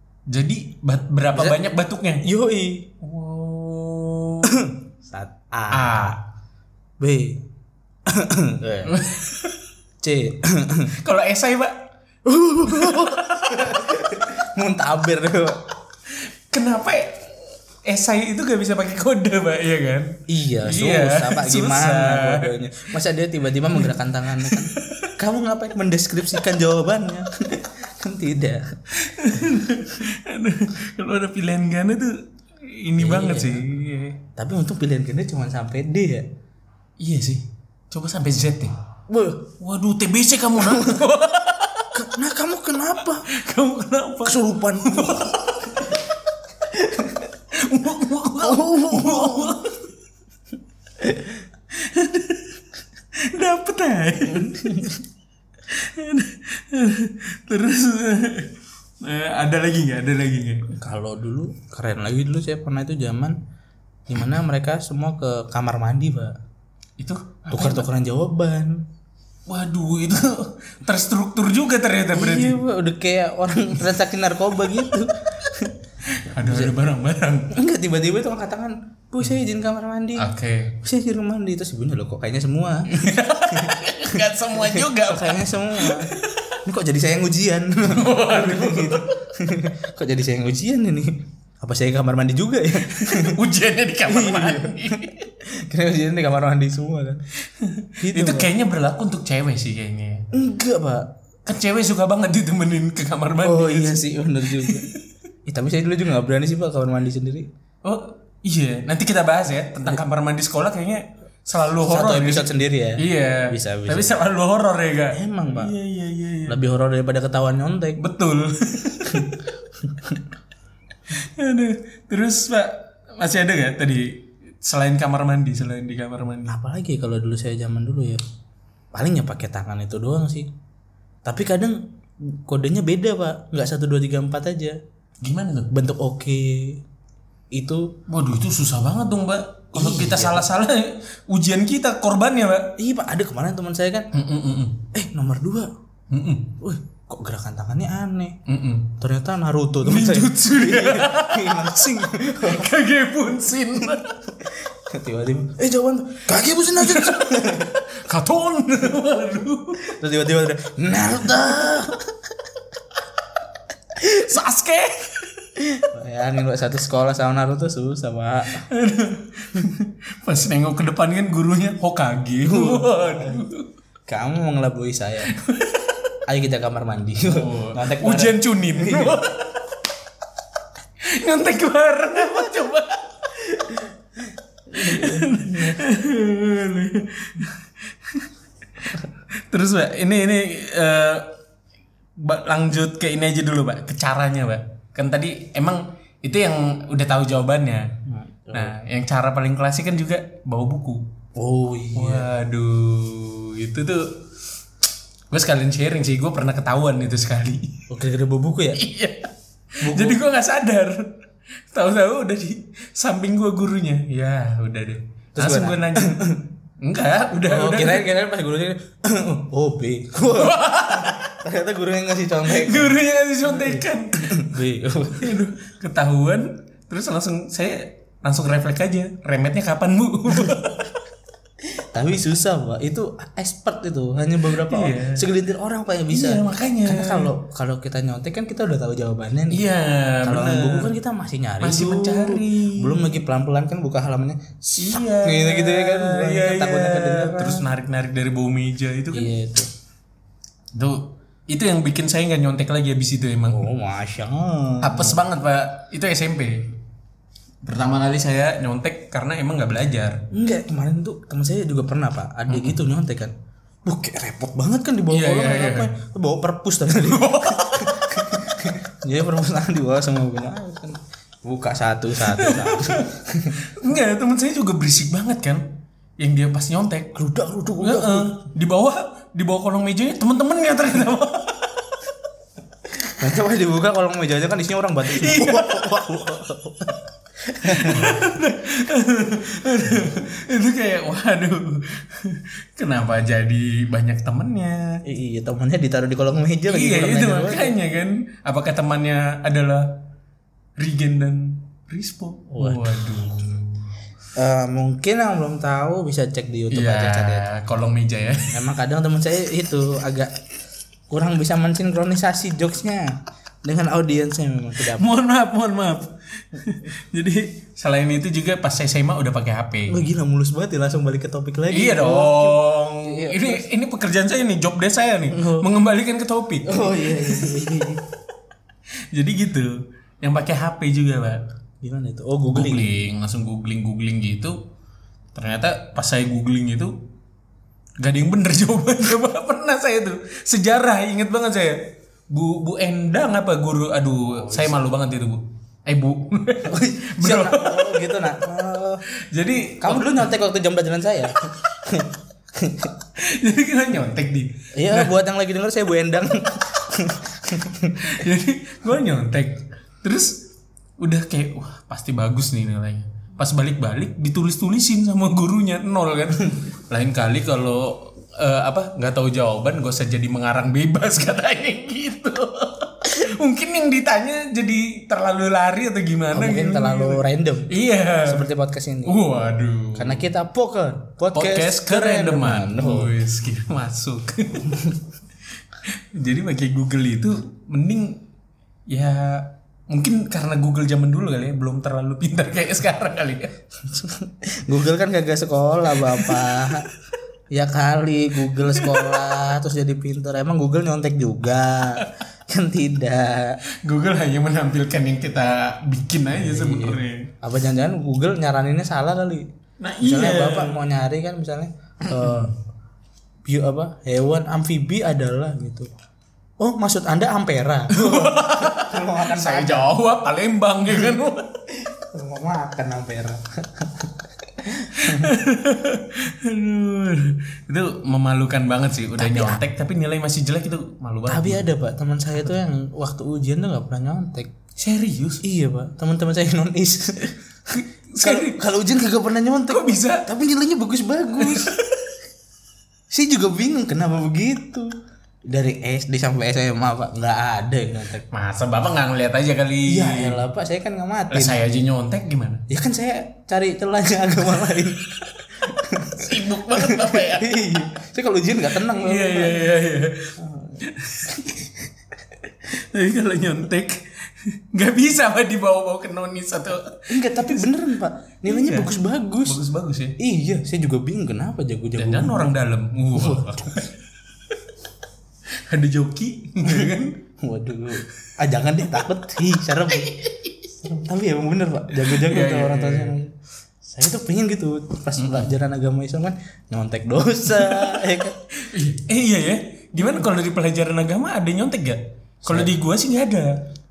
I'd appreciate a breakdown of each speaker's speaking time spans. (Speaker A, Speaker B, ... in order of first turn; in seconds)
Speaker A: 0.3-2.3, 3.0-4.7, 5.7-6.2, 8.9-9.6, 10.9-11.9, 12.7-13.8, 16.1-17.3, 17.9-22.5, 23.8-25.1, 28.9-34.2, 37.0-38.8, 39.6-42.0, 43.3-46.0, 47.5-49.9, 51.7-52.6, 53.2-54.9, 55.7-60.8, 67.0-67.9, 69.5-72.6, 76.0-77.5, 80.2-80.8, 82.9-86.6, 87.8-89.2, 92.8-95.3, 97.5-100.3, 101.5-105.0, 107.8-116.6, 118.0-119.4, 121.1-126.6, 135.2-135.7, 138.1-142.7, 144.1-144.9, 146.1-146.6, 148.5-149.0, 149.8-154.2, 156.8-159.9, 164.0-165.6, 168.6-173.7, 175.3-176.0, 177.3-179.7, 181.0-183.3, 184.7-191.3, 192.2-197.9, 198.5-201.0, 201.9-204.2, 205.3-207.9, 208.7-211.1, 211.7-216.2, 216.8-218.1, 220.3-221.3, 222.5-224.4, 225.2-231.0, 234.5-235.3, 236.1-237.3, 239.5-240.9, 241.6-243.2, 244.8-249.3, 250.7-253.7, 254.8-256.8, 257.6-260.2, 262.5-262.8, 265.1-265.9, 267.0-268.0, 272.2-275.6, 276.2-277.2, 277.8-282.0, 285.1-285.9, 287.6-295.0, 296.7-300.0, 300.8-303.9, 306.7-308.6, 314.8-320.0, 321.7-327.6, 329.1-331.4, 332.5-334.6, 335.3-336.9, 338.0-348.2, 349.2-350.3, 353.2-355.1, 358.0-360.5, 361.0-378.5, 379.1-380.3, 381.3-385.0, 385.8-388.2, 388.9-393.5, 396.1-396.7, 398.7-399.1, 403.8-407.3, 409.8-410.8, 412.1-412.5, 417.9-421.6, 424.9-431.7, 434.8-435.4, 437.7-438.6, 439.7-440.3, 441.4-442.1, 448.3-450.4, 451.3-452.6, 456.1-457.6, 458.7-461.6, 462.7-467.6, 468.5-470.2, 472.0-474.6, 475.7-477.2, 481.9-483.1, 485.2-485.5, 487.7-488.0, 488.6-493.6
Speaker B: 2.2-2.9, 4.5-6.2, 7.0-7.4, 8.1-9.0, 10.0-10.9, 12.2-15.7, 20.3-28.6, 33.0-33.7, 34.4-36.3, 39.1-39.5, 40.6-41.1, 41.9-43.3, 44.2-45.4, 46.7-47.3, 48.4-49.6, 51.0-51.4, 54.3-55.0, 60.8-63.4, 64.1-66.4, 67.5-68.8, 72.1-75.8, 76.4-76.7, 77.5-80.3, 80.8-93.4, 94.1-97.2, 98.0-98.5, 100.3-101.1, 103.4-104.9, 105.5-107.5, 111.8-114.2, 115.1-115.7, 116.5-118.0, 119.1-120.2, 126.5-128.2, 128.9-130.5, 131.2-134.8, 135.7-136.8, 137.5-137.9, 139.7-140.5, 142.8-144.1, 144.9-145.7, 146.6-148.4, 149.0-152.8, 153.9-157.8, 159.8-162.3, 165.6-168.7, 172.4-173.4, 174.1-175.3, 176.3-179.2, 183.5-183.9, 184.7-185.8, 198.1-198.8, 201.4-202.3, 207.9-208.8, 209.8-210.2, 215.4-216.4, 217.5-225.4, 231.7-239.7, 240.2-247.7, 249.1-249.7, 253.5-255.2, 260.3-263.3, 263.9-273.6, 277.1-278.3, 283.0-288.4, 295.1-297.8, 302.5-303.1, 304.4-307.5, 308.4-310.4, 311.1-315.1, 319.9-323.7, 325.3-325.7, 326.6-328.1, 331.8-332.9, 344.3-344.9, 346.6-349.0, 349.7-352.9, 354.8-358.2, 376.3-379.2, 379.9-383.2, 393.8-396.9, 397.5-403.6, 406.3-409.5, 410.0-412.6, 413.4-415.9, 416.6-419.9, 421.7-425.3, 429.2-429.6, 431.3-434.5, 435.4-441.8, 443.1-444.9, 445.5-448.3, 449.9-451.6, 452.7-459.7, 460.4-461.6, 467.1-469.6, 470.2-472.5, 473.1-473.9, 476.6-488.4, 492.4-492.7